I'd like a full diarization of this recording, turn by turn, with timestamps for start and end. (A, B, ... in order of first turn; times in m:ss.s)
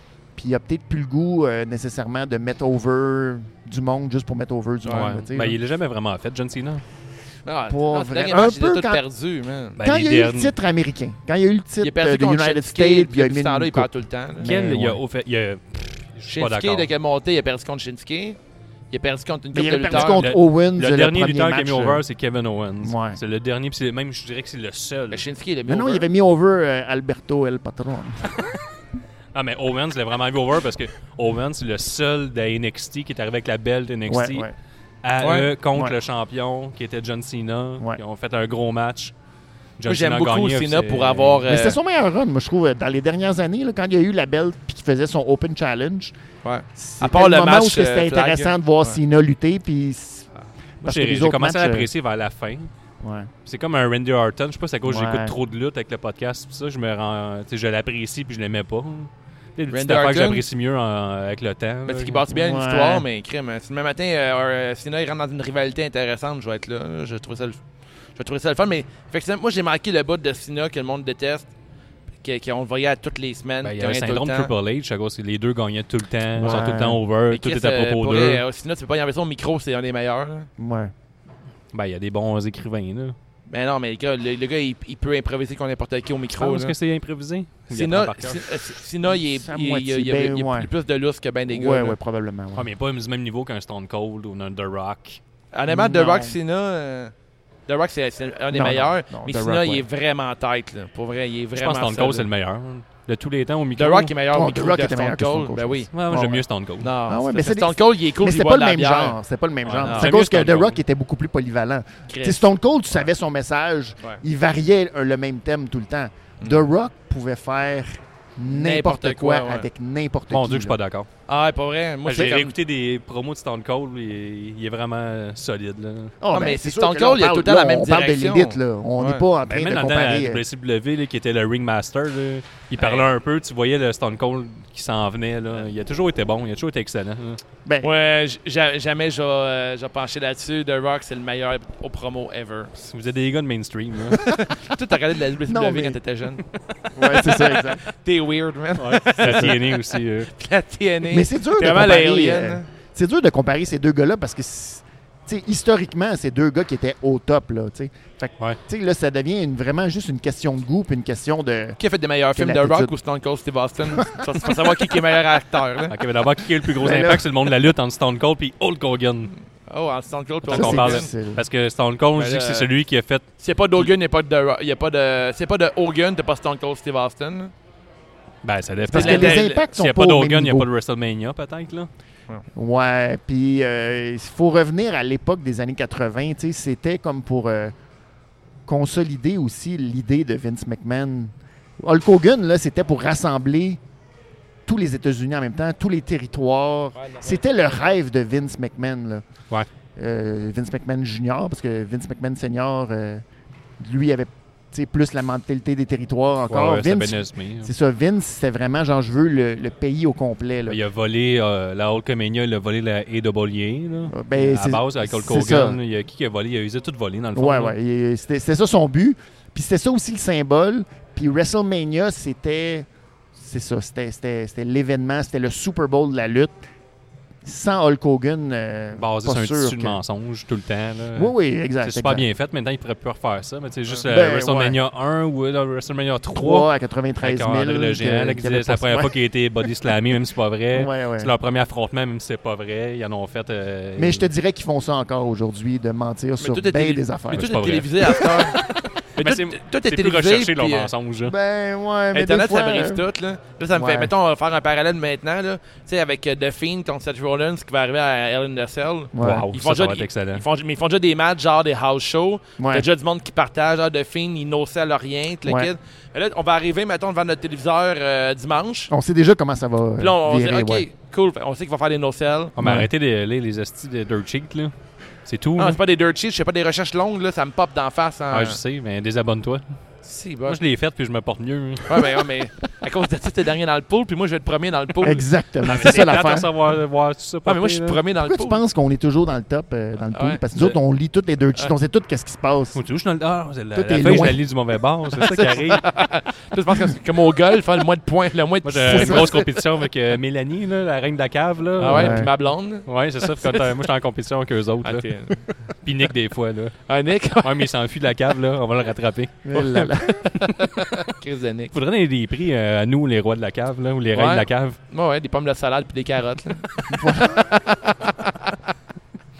0:00.4-0:05.6 A
0:04.8-0:05.1 B
0:04.9-0:06.8 C
0:07.4-0:09.8 B
0:07.7-0:09.0 A
0:09.8-0:10.5 C
0:09.8-0:15.0 A
0:11.8-0:14.5 B
0:14.4-0:16.9 C
0:16.3-0:18.4 B
0:18.9-0:20.2 B
0:19.5-0:22.0 A
0:19.9-0:25.2 C
0:22.8-0:23.2 A
0:25.1-0:26.0 B
0:25.7-0:28.4 A
0:29.3-0:34.5 C
0:34.1-0:34.5 A
0:35.0-0:39.1 C
0:35.2-0:35.5 B
0:39.8-0:41.5 C
0:39.8-0:41.8 B
0:41.5-0:46.1 A
0:46.4-0:49.0 B
0:46.8-0:50.3 A
0:50.8-0:52.7 C
0:50.8-0:51.9 A
0:53.0-0:53.3 A
0:53.4-1:02.2 C
0:54.8-0:55.3 A
0:59.7-1:00.4 B
1:01.8-1:07.6 B
1:02.3-1:03.0 A
1:08.2-1:11.5 B
1:12.2-1:14.5 B
1:13.6-1:18.4 C
1:16.4-1:17.0 A
1:17.3-1:20.5 B
1:20.6-1:20.9 A
1:21.7-1:23.2 C
1:23.5-1:26.7 B
1:26.4-1:28.5 C
1:27.7-1:32.0 B
1:29.1-1:30.7 A
1:31.5-1:32.7 A
1:32.6-1:35.2 C
1:35.5-1:37.1 B
1:35.7-1:36.4 A
1:37.7-1:42.3 B
1:38.5-1:39.8 A
1:41.6-1:44.1 C
1:43.8-1:45.9 B
1:44.3-1:46.4 A
1:45.9-1:46.9 C
1:46.8-1:49.2 B
1:47.1-2:00.7 A
1:49.6-1:50.8 C
1:49.8-1:50.1 B
1:52.1-1:52.5 B
1:56.4-1:56.7 B
1:58.4-1:59.7 B
2:00.3-2:01.1 C
2:01.3-2:02.5 B
2:02.0-2:06.1 C
2:06.2-2:10.4 A
2:06.3-2:09.2 B
2:09.5-2:17.4 C
2:12.8-2:13.1 B
2:17.6-2:17.9 A
2:17.8-2:22.7 B
2:22.7-2:24.3 C
2:24.2-2:26.4 B
2:25.5-2:26.0 A
2:26.9-2:27.8 A
2:27.4-2:32.7 B
2:28.8-2:30.3 C
2:29.2-2:29.5 A
2:31.1-2:41.8 A
2:41.8-2:46.0 B
2:42.3-2:42.9 A
2:45.9-2:49.3 C
2:46.8-2:47.3 A
2:49.7-2:51.1 B
2:50.5-2:51.4 A
2:50.5-2:53.9 C
2:52.1-2:52.7 B
2:53.4-2:57.5 B
2:58.4-3:01.9 C
2:58.9-3:00.7 A
2:58.9-2:59.6 B
3:02.5-3:07.7 A
3:08.6-3:13.8 A
3:14.6-3:19.2 A
3:17.0-3:17.8 B
3:20.0-3:23.2 A
3:23.8-3:30.8 A
3:26.5-3:27.7 C
3:30.7-3:37.7 C
3:34.1-3:35.8 A
3:37.3-3:46.6 A
3:47.4-3:50.0 A
3:49.0-3:56.7 C
3:51.1-3:52.2 A
3:54.1-3:54.8 A
3:56.3-3:59.1 A
3:57.2-4:04.3 C
4:00.7-4:01.3 A
4:04.0-4:08.4 A
4:06.4-4:08.6 B
4:07.3-4:11.3 C
4:09.2-4:10.9 B
4:11.2-4:13.0 A
4:12.1-4:28.9 B
4:13.7-4:14.1 A
4:19.1-4:19.5 A
4:19.2-4:20.4 C
4:22.6-4:22.8 A
4:25.4-4:25.7 A
4:28.9-4:30.8 A
4:30.0-4:32.5 B
4:32.6-4:34.7 C
4:32.6-4:32.9 A
4:35.2-4:35.8 C
4:35.6-4:38.6 B
4:38.3-4:39.6 C
4:40.0-4:40.6 B
4:40.5-4:42.2 C
4:41.9-4:45.3 B
4:45.0-4:46.5 A
4:45.6-4:48.0 C
4:47.4-4:48.6 B
4:48.2-4:52.8 A
4:50.1-4:50.7 B
4:52.7-4:55.8 C
4:53.7-4:54.4 A
4:55.2-4:59.5 B
4:58.6-5:02.3 C
4:58.9-4:59.3 A
5:01.8-5:03.7 B
5:01.8-5:02.3 A
5:02.8-5:05.1 C
5:04.8-5:05.4 B
5:05.8-5:06.8 C
5:06.9-5:07.7 B
5:07.4-5:09.9 C
5:09.4-5:10.3 A
5:10.2-5:11.7 B
5:10.4-5:10.9 C
5:11.7-5:14.8 C
5:14.1-5:18.6 B
5:16.9-5:17.5 A